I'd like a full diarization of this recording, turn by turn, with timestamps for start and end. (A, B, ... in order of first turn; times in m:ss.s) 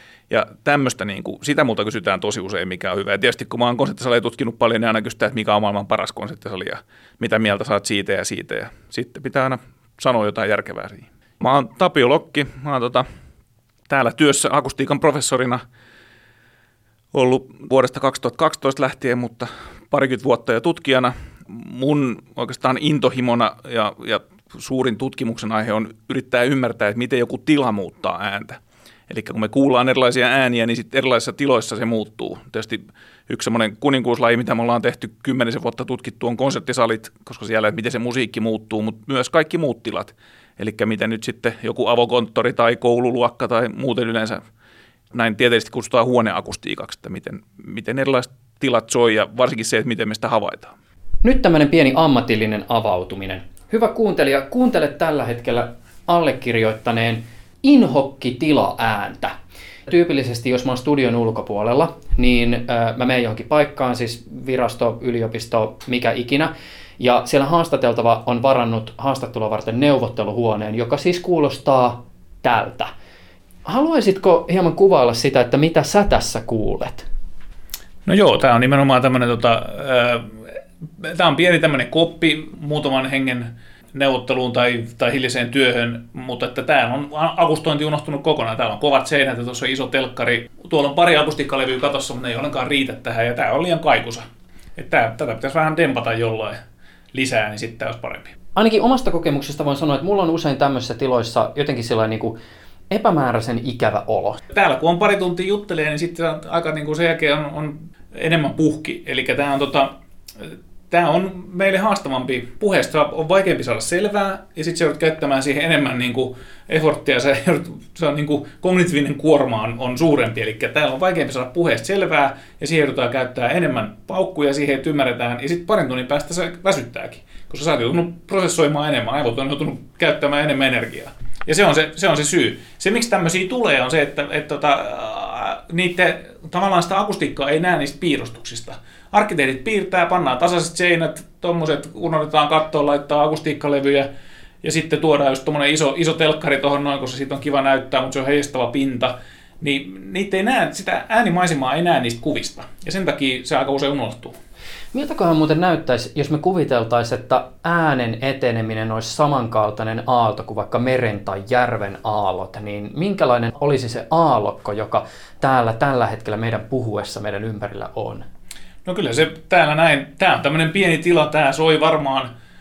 0:00.3-0:13.0 A
0:13.9-0:15.6 A
0:17.1-0:44.4 A
0:45.1-0:50.7 A
0:51.2-0:59.4 B
0:59.9-1:12.9 B
1:13.6-1:17.0 B
1:18.0-1:36.6 A
1:37.1-1:38.4 A
1:38.6-1:42.4 B
1:42.9-1:44.4 B
1:44.5-2:24.1 A
2:24.6-2:34.4 A
2:34.9-2:48.2 B
2:48.8-2:52.3 A